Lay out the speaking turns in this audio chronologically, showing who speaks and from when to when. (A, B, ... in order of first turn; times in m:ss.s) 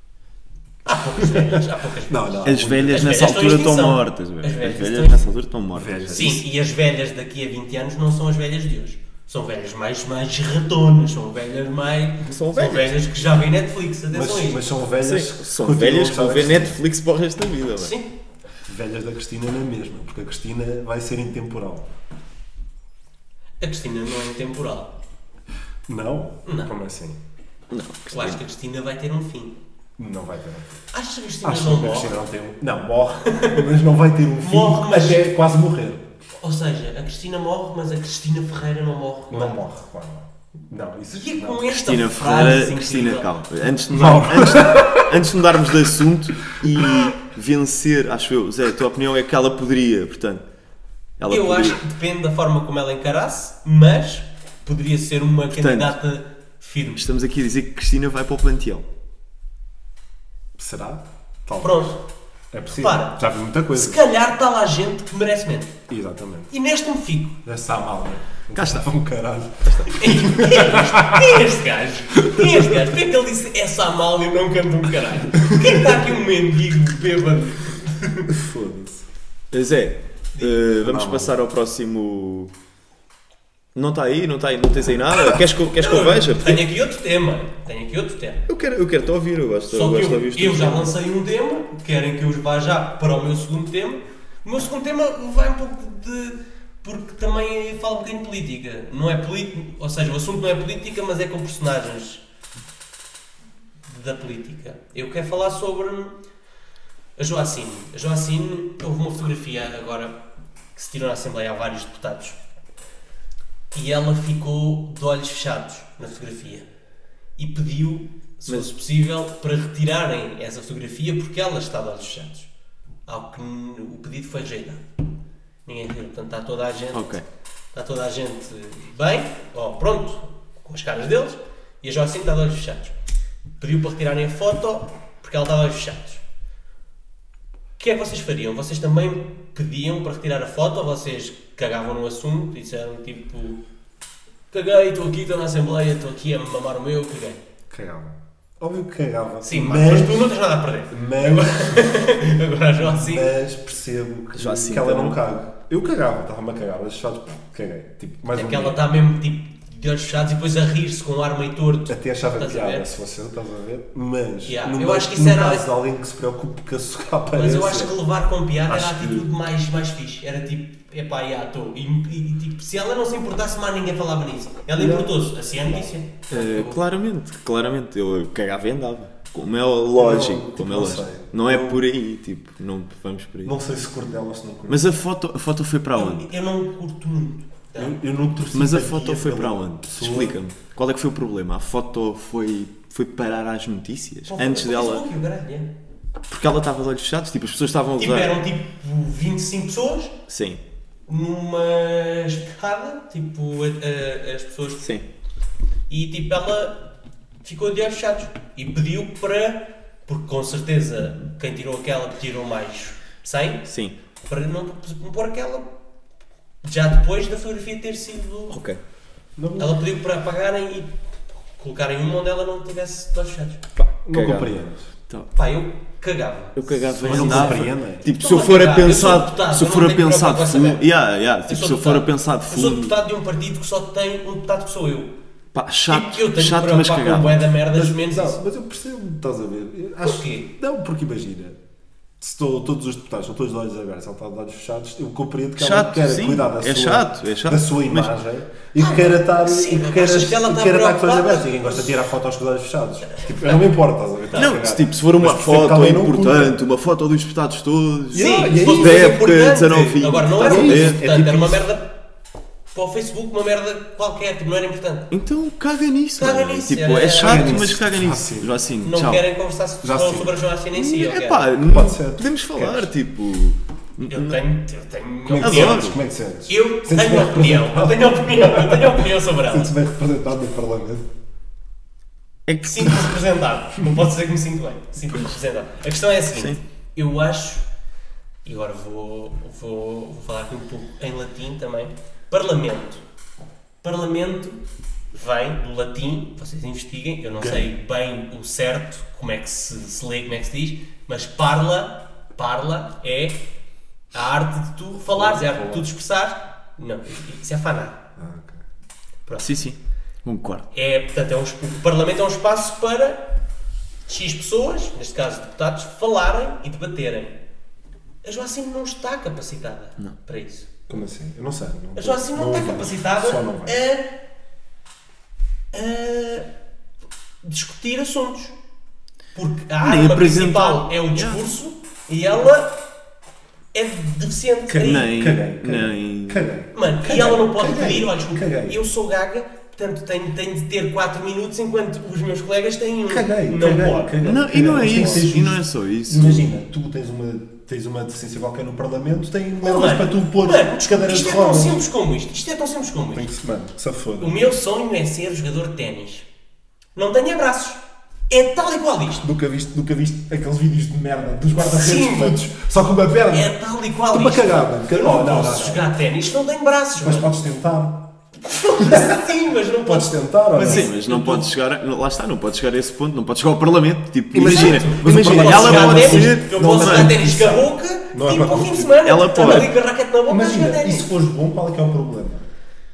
0:00.8-0:05.2 A
0:01.2-0:03.1 B
0:02.4-0:06.4 C
0:05.8-0:06.4 B
0:06.1-0:14.6 A
0:12.2-0:13.0 C
0:14.1-0:16.8 B
0:15.0-0:18.0 C
0:17.8-0:18.1 A
0:18.7-0:21.9 B
0:23.6-0:24.9 A
0:25.9-0:27.2 B
0:26.4-0:26.7 A
0:27.7-0:28.4 C
0:28.1-0:29.6 A
0:30.0-0:30.8 B
0:30.9-0:32.2 A
0:31.4-0:36.1 B
0:33.3-0:33.6 A
0:34.4-0:35.3 A
0:36.4-0:39.6 A
0:39.3-0:41.7 B
0:41.1-0:43.3 A
0:41.7-0:50.4 C
0:43.9-0:45.1 B
0:51.2-0:51.8 C
0:51.3-0:57.0 A
0:55.5-0:56.0 C
0:57.0-0:58.9 C
1:00.6-1:01.9 B
1:01.6-1:02.0 A
1:02.5-1:04.0 B
1:02.7-1:05.8 A
1:05.9-1:06.5 B
1:06.5-1:07.4 A
1:07.4-1:11.4 B
1:08.5-1:08.9 C
1:09.6-1:10.0 C
1:09.9-1:18.3 A
1:12.2-1:12.9 B
1:15.5-1:15.8 B
1:18.3-1:19.0 B
1:19.5-1:22.5 C
1:20.4-1:20.6 A
1:20.8-1:21.4 B
1:23.8-1:26.6 C
1:25.8-1:28.5 A
1:28.5-1:30.9 C
1:29.7-1:42.2 A
1:43.9-1:46.2 A
1:47.2-1:50.2 A
1:50.8-1:52.4 A
1:53.7-1:56.7 A
1:57.4-2:02.5 A
2:03.1-2:04.8 A
2:05.7-2:07.2 A
2:06.9-2:07.2 C
2:07.7-2:13.0 A
2:13.6-2:16.2 A
2:17.8-2:23.6 A
2:24.5-2:27.4 A
2:27.7-2:30.3 B
2:29.4-2:33.3 A
2:30.9-2:32.1 B
2:32.8-2:38.8 B
2:34.3-2:35.2 C
2:38.3-2:42.9 A
2:41.9-2:48.0 B
2:44.4-2:45.7 A
2:47.4-2:56.8 A
2:48.7-2:49.3 B
2:54.8-2:55.9 B
2:56.3-3:03.6 C
3:00.0-3:01.8 B
3:03.4-3:04.9 B
3:04.7-3:06.3 C
3:06.0-3:08.0 A
3:07.8-3:10.4 B
3:08.5-3:15.1 C
3:14.3-3:15.7 A
3:16.3-3:18.4 C
3:18.0-3:20.2 A
3:20.3-3:20.6 C
3:21.1-3:24.9 A
3:25.9-3:26.9 A
3:27.4-3:33.7 A
3:33.7-3:33.9 C
3:34.3-3:35.7 A
3:36.6-3:38.6 A
3:38.5-3:38.8 C
3:39.4-3:39.8 B
3:39.6-3:41.0 A
3:41.5-3:43.6 A
3:43.8-3:45.3 C
3:44.0-3:44.9 B
3:45.4-3:50.8 A
3:46.6-3:53.0 C
3:47.0-3:48.1 B
3:51.5-3:55.1 A
3:55.5-3:57.5 C
3:55.9-3:58.4 A
3:57.7-4:01.6 B
4:00.0-4:00.5 A
4:02.2-4:16.6 B
4:05.6-4:08.1 C
4:08.8-4:12.1 A
4:13.1-4:13.6 A
4:14.4-4:21.0 C
4:18.1-4:19.3 B
4:18.1-4:22.0 A
4:20.4-4:21.7 B
4:22.7-4:25.1 A
4:25.1-4:29.2 C
4:26.2-4:27.6 A
4:27.2-4:28.5 B
4:28.8-4:31.5 A
4:29.8-4:30.4 B
4:30.7-4:34.4 C
4:31.7-4:32.9 B
4:34.1-4:35.9 A
4:35.3-4:41.1 B
4:35.4-4:36.0 C
4:36.5-4:39.7 A
4:42.5-4:43.2 C
4:42.6-4:47.7 A
4:46.3-4:46.6 C
4:48.4-4:53.0 A
4:53.8-4:54.6 A
4:55.1-5:03.4 A
4:57.4-4:57.6 B
5:04.1-5:08.0 A
5:05.0-5:05.9 B
5:08.2-5:08.6 B
5:09.3-5:09.6 A
5:09.4-5:10.7 C
5:10.7-5:13.3 A
5:14.1-5:17.4 A
5:18.2-5:20.7 A
5:20.9-5:23.8 B
5:22.0-5:24.2 A
5:25.7-5:26.5 A
5:27.4-5:28.6 A
5:29.4-5:32.8 A
5:29.8-5:31.4 C
5:33.7-5:35.1 A
5:34.7-5:38.8 B
5:34.8-5:36.5 C
5:36.7-5:45.4 A
5:43.1-5:51.8 B
5:44.2-5:46.5 C
5:49.6-5:53.3 A
5:53.1-5:54.4 B
5:54.2-5:56.3 A
5:57.0-5:59.3 A
5:59.2-6:03.5 B
6:01.6-6:02.5 A
6:03.3-6:07.4 A
6:04.1-6:05.9 B
6:07.0-6:08.1 B
6:08.4-6:11.5 A
6:08.8-6:09.3 B
6:09.8-6:10.9 B
6:10.6-6:17.2 C
6:14.3-6:19.7 B
6:14.4-6:21.1 A
6:19.0-6:19.7 C
6:20.3-6:22.5 B